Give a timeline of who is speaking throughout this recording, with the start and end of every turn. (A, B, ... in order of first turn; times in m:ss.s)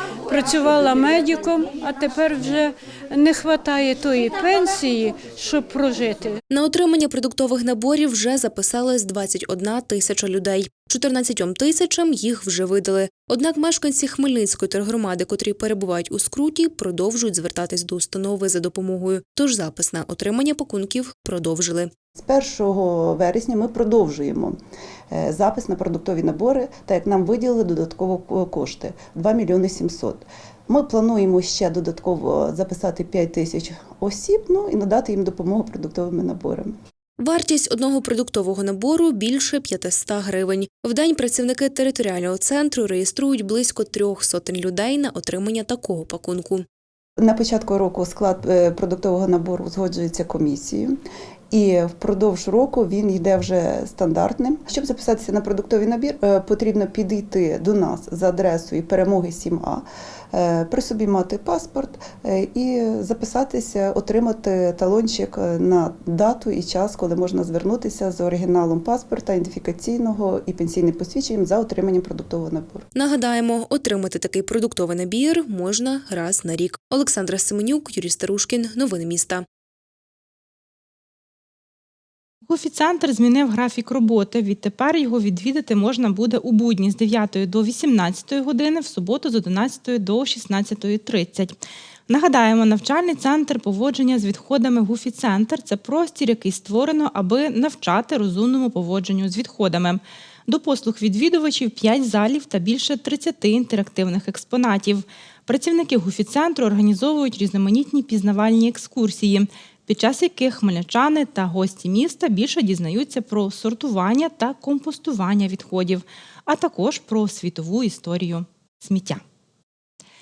0:00.3-0:06.4 A
0:06.5-0:21.9 B
0:22.2-0:24.6 C
0:25.1-0:36.8 C
0:37.2-0:46.6 B
0:47.2-0:51.0 C
0:51.5-1:12.9 C
1:13.0-1:19.5 B
1:22.5-1:31.6 D
1:32.1-1:59.2 D